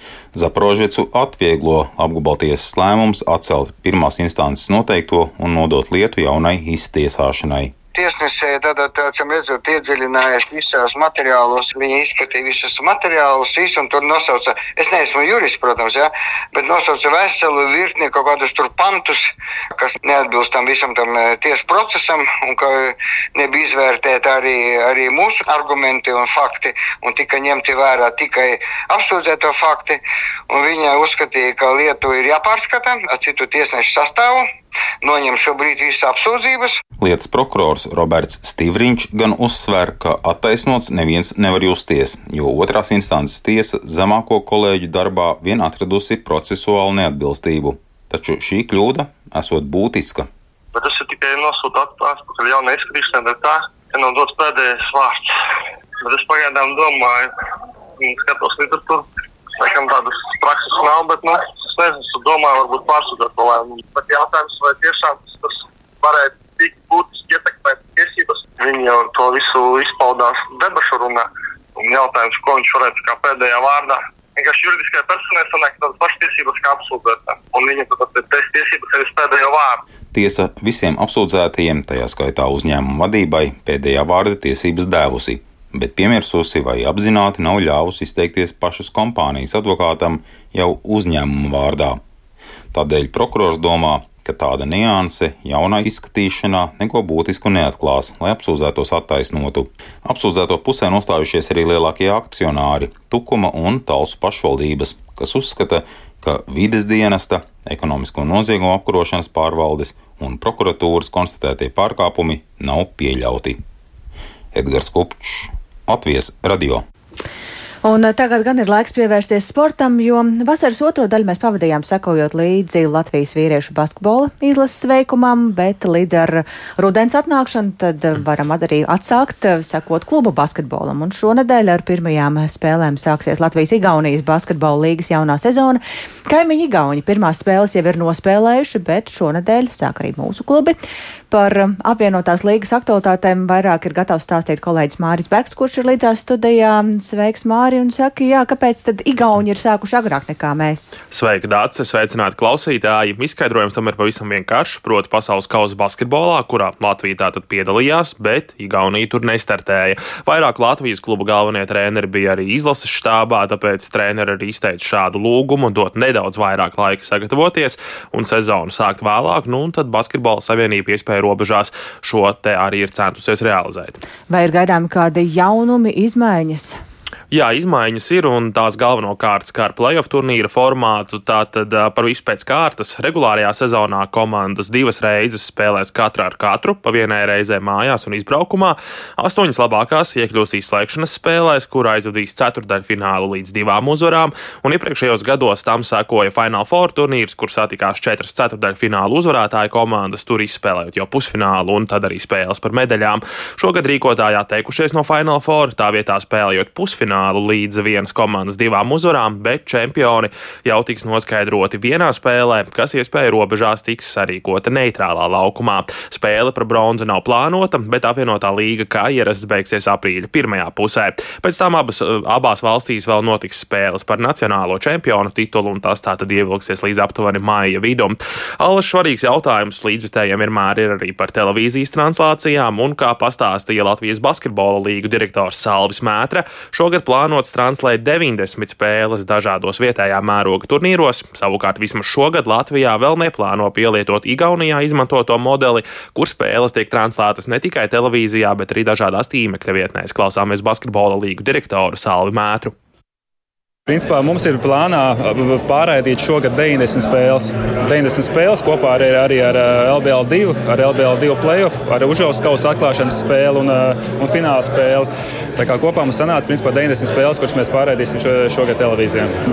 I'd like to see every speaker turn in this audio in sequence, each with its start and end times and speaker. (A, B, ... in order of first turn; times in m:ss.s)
0:00.3-0:07.8 A
0:07.9-0:34.5 B
0:35.0-0:36.8 B
0:37.0-0:50.3 A
0:50.7-0:55.2 C
0:56.0-0:57.3 C
0:58.0-0:59.0 C
0:59.6-1:19.8 C
1:20.1-1:32.0 A
1:32.7-1:53.6 A
1:54.5-1:56.8 A
1:57.8-2:20.8 D
2:21.3-2:30.9 D
2:31.1-2:54.0 E
2:54.3-2:56.8 D
2:57.3-4:12.7 E
4:13.9-4:29.3 F